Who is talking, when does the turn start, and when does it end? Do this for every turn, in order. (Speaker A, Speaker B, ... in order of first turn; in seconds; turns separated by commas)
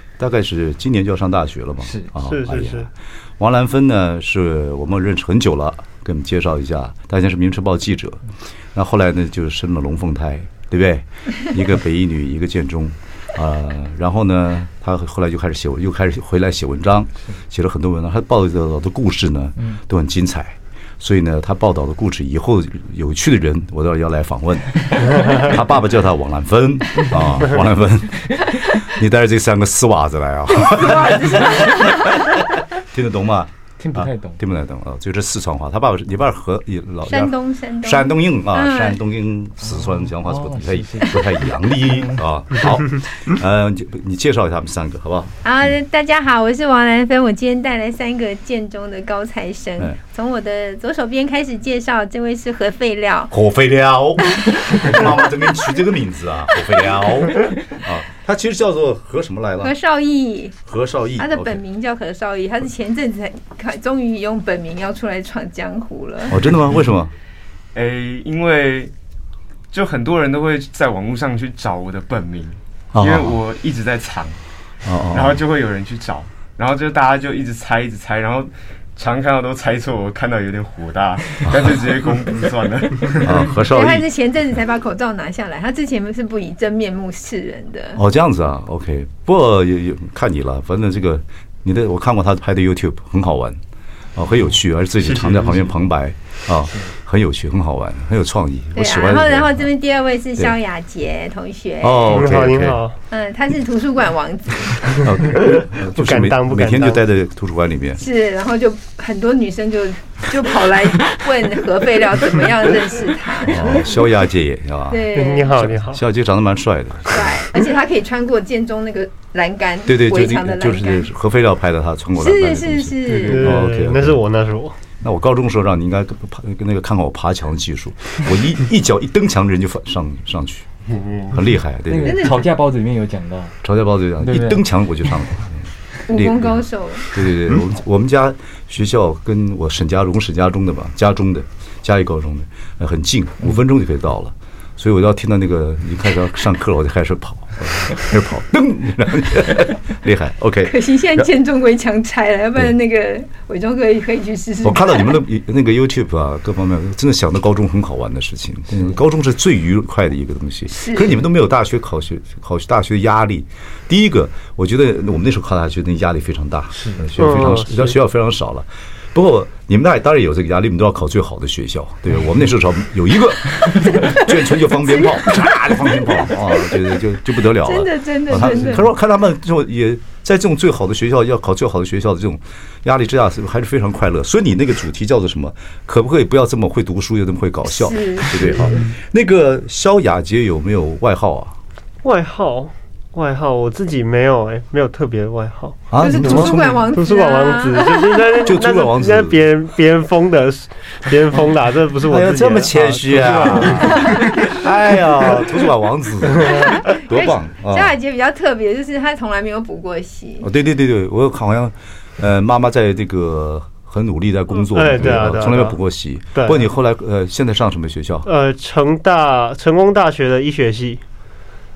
Speaker A: 0.2-45.4, Speaker B: 1.8-2.1, Speaker C: 2.2-2.9, Speaker B: 26.9-27.4, Speaker D: 30.5-32.3, Speaker B: 33.8-34.4, Speaker D: 37.0-39.0, Speaker B: 39.6-42.2, Speaker D: 45.4-53.3, Speaker A: 53.3-59.7, Speaker D: 59.6-60.5, Speaker A: 60.6-61.6, Speaker D: 61.2-66.5, Speaker A: 66.3-67.1, Speaker E: 67.7-68.9, Speaker E: 69.7-74.4, Speaker A: 72.9-73.4, Speaker A: 74.8-75.4, Speaker E: 75.1-83.4, Speaker A: 81.5-81.8, Speaker A: 83.2-84.1, Speaker D: 83.6-88.0, Speaker A: 87.9-93.6, Speaker A: 94.2-99.7, Speaker E: 95.0-95.6, Speaker D: 98.7-102.4, Speaker A: 101.8-102.8, Speaker C: 102.1-102.9, Speaker D: 103.1-105.2, Speaker A: 105.0-108.0, Speaker C: 105.8-107.0, Speaker D: 108.0-113.9, Speaker A: 113.4-115.0, Speaker D: 114.9-115.6, Speaker C: 115.1-116.0, Speaker A: 115.6-117.6, Speaker D: 117.1-121.1, Speaker A: 119.8-124.2, Speaker D: 122.2-123.5, Speaker C: 123.1-124.8, Speaker A: 125.0-130.7, Speaker E: 130.9-131.4, Speaker A: 131.3-132.3, Speaker B: 131.9-133.6, Speaker D: 132.0-132.5, Speaker A: 133.6-151.3, Speaker B: 134.2-134.6, Speaker D: 136.1-137.1, Speaker D: 150.6-155.2, Speaker A: 154.6-191.6, Speaker D: 160.7-161.1, Speaker B: 166.8-167.1, Speaker C: 167.2-168.0, Speaker D: 173.8-177.0, Speaker D: 177.5-178.9, Speaker D: 187.6-188.8, Speaker C: 192.0-204.7, Speaker A: 195.9-196.8, Speaker D: 196.0-198.5, Speaker A: 198.4-199.4, Speaker A: 202.0-207.9, Speaker D: 203.8-204.2, Speaker C: 205.3-205.6, Speaker D: 206.4-210.5, Speaker A: 210.4-218.3, Speaker C: 214.7-215.8, Speaker C: 216.3-216.7, Speaker C: 218.2-221.0